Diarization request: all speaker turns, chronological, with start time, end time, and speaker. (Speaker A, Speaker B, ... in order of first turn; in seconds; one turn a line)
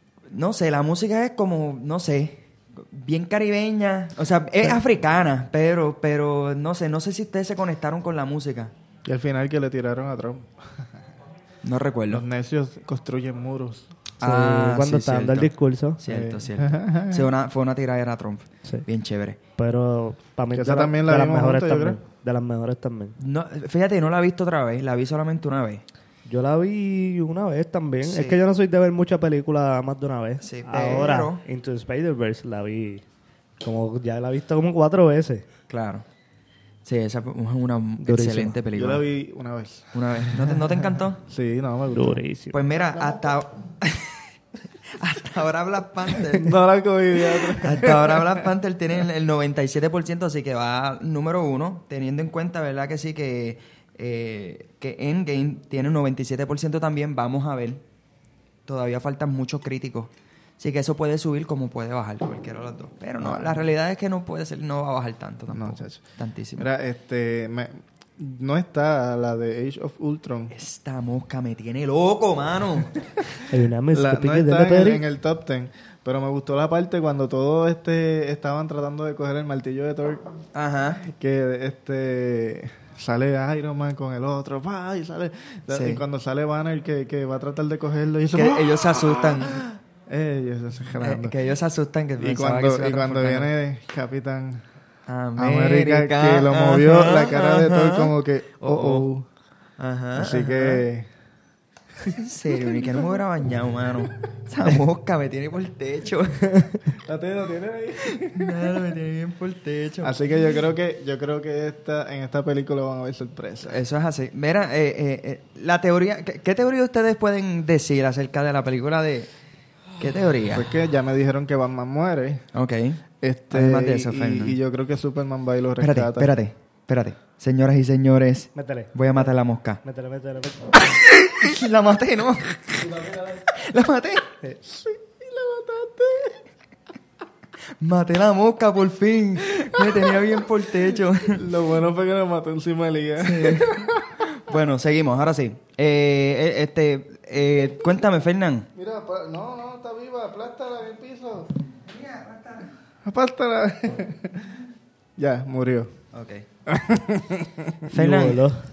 Speaker A: 0.3-8.7
Speaker B: 9.0-10.9
Speaker A: 11.6-12.2
Speaker B: 12.1-13.9
Speaker A: 14.2-19.4
Speaker C: 14.2-16.0
Speaker B: 16.1-17.3
Speaker C: 19.6-23.1
Speaker B: 20.5-22.0
Speaker A: 23.2-25.8
Speaker C: 26.2-33.0
Speaker A: 28.0-28.4
Speaker A: 30.4-31.4
Speaker C: 33.6-35.5
Speaker A: 35.7-36.0
Speaker A: 36.8-39.0
Speaker C: 38.0-38.5
Speaker B: 38.7-40.6
Speaker A: 39.9-41.2
Speaker B: 41.2-42.2
Speaker C: 41.9-42.6
Speaker A: 42.5-44.2
Speaker A: 44.8-46.5
Speaker B: 46.4-48.5
Speaker A: 47.6-57.8
Speaker A: 58.7-66.7
Speaker B: 63.2-63.6
Speaker B: 65.5-66.0
Speaker B: 66.6-70.5
Speaker A: 70.5-73.0
Speaker C: 73.5-75.0
Speaker B: 73.9-80.3
Speaker A: 80.5-81.0
Speaker B: 81.0-91.3
Speaker A: 85.7-86.0
Speaker A: 88.3-89.7
Speaker A: 91.0-93.5
Speaker B: 92.2-94.6
Speaker A: 95.1-99.0
Speaker B: 95.4-99.2
Speaker A: 99.8-100.8
Speaker B: 100.1-101.1
Speaker A: 102.1-106.8
Speaker B: 102.6-103.0
Speaker B: 107.0-108.8
Speaker A: 108.2-110.2
Speaker B: 110.0-113.8
Speaker A: 113.7-119.3
Speaker A: 120.0-120.8
Speaker B: 120.5-122.4
Speaker A: 122.5-124.6
Speaker B: 123.2-126.3
Speaker A: 125.8-129.8
Speaker C: 128.5-129.2
Speaker C: 129.8-130.8
Speaker A: 130.8-134.3
Speaker B: 134.6-136.4
Speaker A: 137.8-141.4
Speaker B: 139.7-140.4
Speaker B: 141.2-144.2
Speaker A: 143.2-148.7
Speaker B: 148.7-151.6
Speaker A: 151.8-152.7
Speaker B: 153.0-154.6
Speaker B: 155.2-155.9
Speaker A: 156.1-156.4
Speaker B: 156.7-157.9
Speaker A: 157.9-158.4
Speaker C: 157.9-158.6